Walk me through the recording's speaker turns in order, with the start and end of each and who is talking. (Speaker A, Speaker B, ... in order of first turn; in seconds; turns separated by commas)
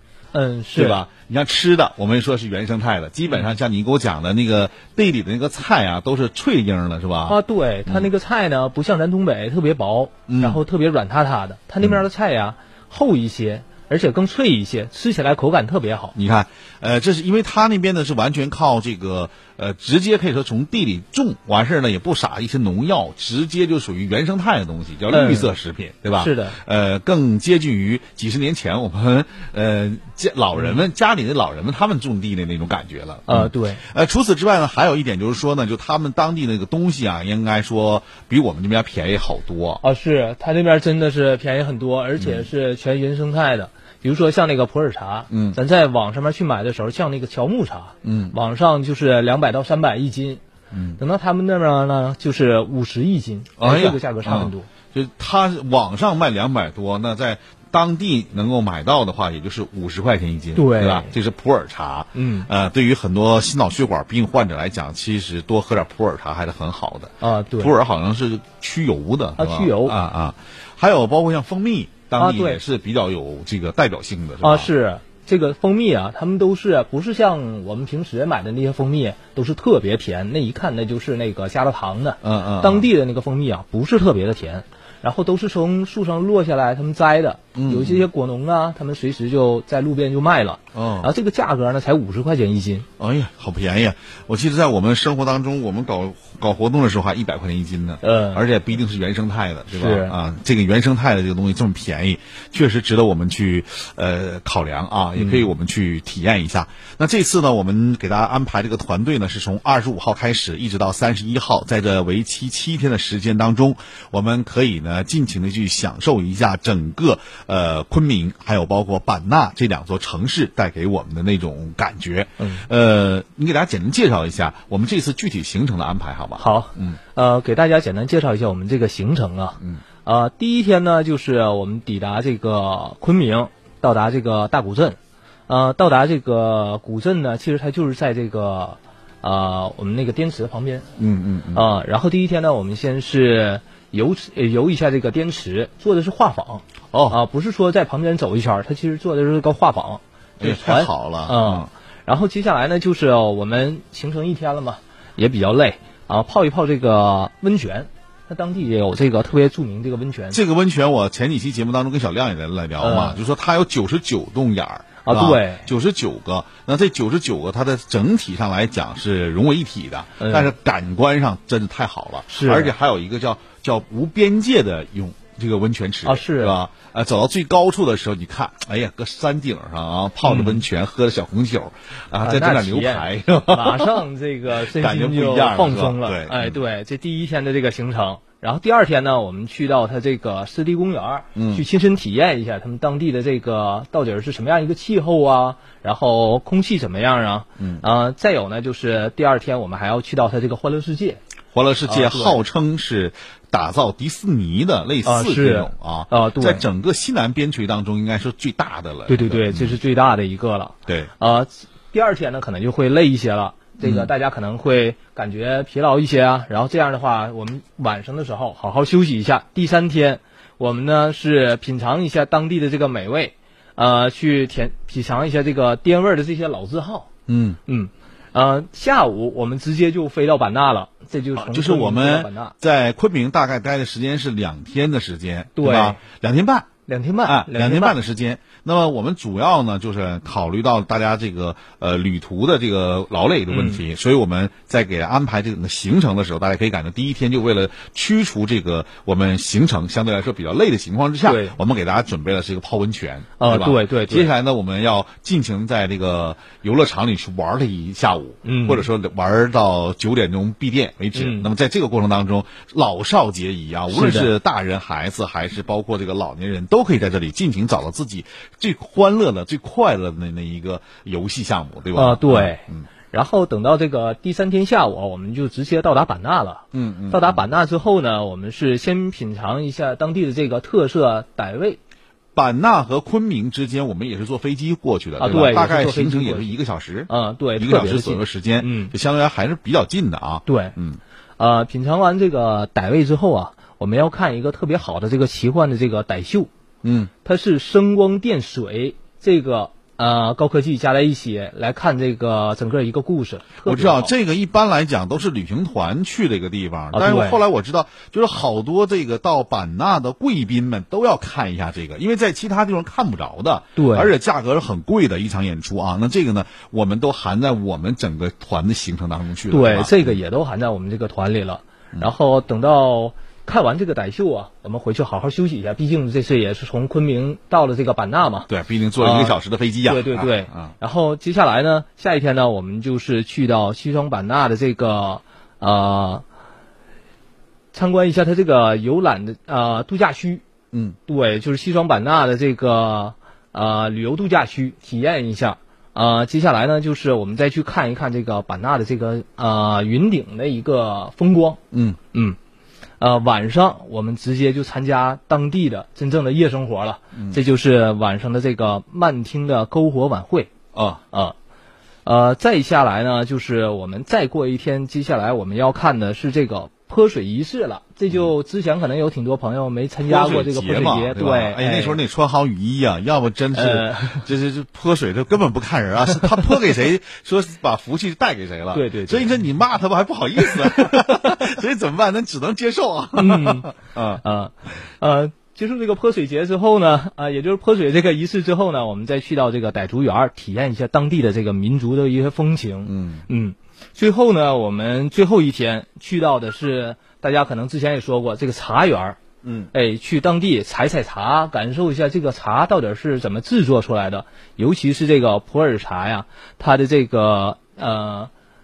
Speaker A: 0.3-1.0, Speaker B: 0.7-8.1, Speaker A: 7.3-16.1, Speaker B: 10.3-10.6, Speaker B: 16.1-39.8, Speaker A: 25.1-25.5, Speaker A: 26.2-26.6, Speaker A: 30.6-30.8, Speaker A: 33.3-33.8, Speaker A: 39.8-50.4, Speaker B: 42.2-42.5, Speaker B: 45.3-45.6, Speaker B: 48.0-48.4, Speaker B: 50.7-51.0, Speaker A: 51.0-54.7, Speaker B: 53.6-74.7, Speaker A: 60.5-61.1, Speaker A: 62.1-62.5, Speaker A: 67.2-67.7, Speaker A: 69.4-70.0, Speaker A: 72.2-72.6, Speaker A: 74.4-92.9, Speaker B: 82.2-82.9, Speaker B: 87.5-88.1, Speaker B: 90.7-91.1, Speaker B: 93.0-127.0, Speaker A: 98.0-98.4, Speaker A: 99.7-100.1, Speaker A: 105.2-105.5, Speaker A: 122.4-122.7, Speaker A: 126.4-140.9, Speaker B: 141.0-141.7, Speaker A: 141.5-160.4, Speaker B: 146.9-147.2, Speaker B: 150.4-151.7, Speaker B: 160.3-186.6, Speaker A: 162.8-163.2, Speaker A: 165.1-165.7, Speaker A: 170.2-170.5, Speaker A: 172.3-172.7, Speaker A: 176.1-176.6, Speaker A: 180.2-180.6, Speaker A: 182.2-201.2, Speaker B: 191.3-191.7, Speaker B: 197.6-197.8, Speaker B: 201.5-209.8, Speaker A: 201.9-202.4, Speaker A: 205.0-206.7, Speaker A: 209.1-227.1, Speaker B: 213.8-214.1, Speaker B: 227.3-227.6, Speaker A: 227.7-232.6, Speaker B: 231.4-236.7, Speaker A: 235.6-236.0, Speaker A: 236.9-238.0, Speaker B: 237.2-272.9, Speaker A: 243.5-243.8, Speaker A: 251.2-251.6, Speaker A: 253.4-254.3, Speaker A: 258.4-258.9, Speaker A: 261.1-261.5, Speaker A: 263.9-264.3, Speaker A: 271.9-281.8, Speaker B: 276.7-277.4, Speaker B: 282.4-291.0, Speaker A: 285.2-286.5, Speaker A: 287.1-288.9, Speaker A: 290.5-290.8, Speaker A: 291.4-296.5, Speaker B: 296.8-297.1, Speaker A: 297.2-304.1, Speaker B: 303.6-320.2, Speaker A: 306.9-307.4, Speaker A: 313.8-314.1, Speaker A: 319.5-336.2, Speaker B: 328.5-330.7, Speaker A: 337.7-340.4, Speaker B: 340.7-341.0, Speaker A: 341.1-351.6, Speaker B: 351.7-352.0, Speaker A: 353.0-360.5, Speaker B: 357.1-357.4, Speaker B: 360.7-361.0, Speaker A: 362.1-372.0, Speaker B: 370.0-384.2, Speaker A: 373.6-374.3, Speaker A: 378.7-379.3, Speaker A: 380.4-381.4, Speaker A: 383.2-399.2, Speaker B: 392.9-393.2, Speaker B: 399.4-399.7, Speaker A: 399.7-408.3